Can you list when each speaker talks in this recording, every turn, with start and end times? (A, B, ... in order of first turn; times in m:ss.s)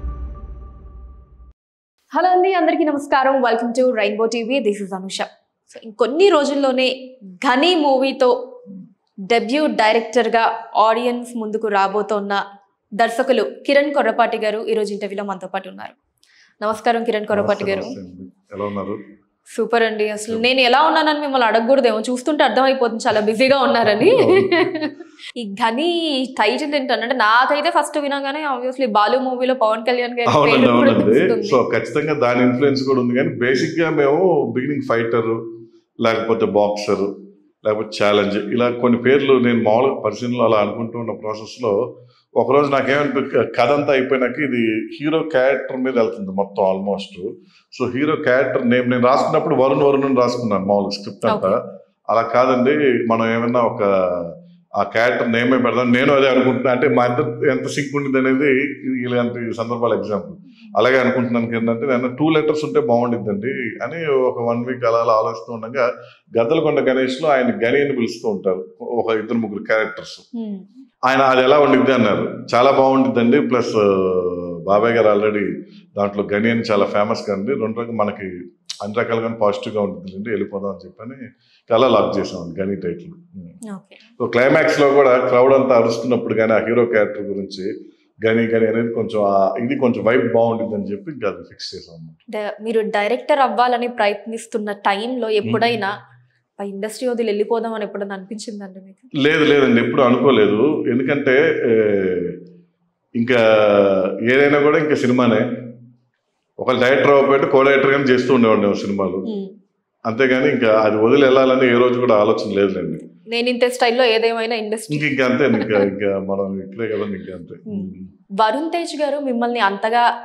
0:02.1-0:06.9 A
0:07.4-0:08.3 A
0:09.3-0:12.4 A
0:13.0-0:16.0 A
0:16.6-0:17.9 A
0:17.3-0:19.0 B
0:19.5-0:31.6 A
0:23.9-0:24.5 B
0:30.3-0:35.4 B
0:36.0-0:37.1 B
0:37.6-0:41.7 B
0:42.4-0:51.6 B
0:51.3-0:51.6 A
0:52.1-1:10.2 B
1:10.3-1:10.6 A
1:11.0-1:23.6 B
1:23.7-1:24.0 A
1:24.2-1:27.7 B
1:28.2-1:32.2 B
1:32.3-1:35.9 A
1:36.6-1:39.0 A
1:39.2-1:42.4 B
1:43.2-1:45.4 B
1:46.6-1:49.2 B
1:50.1-1:53.0 B
1:53.3-1:55.8 A
1:54.9-1:58.1 B
1:58.4-2:00.0 A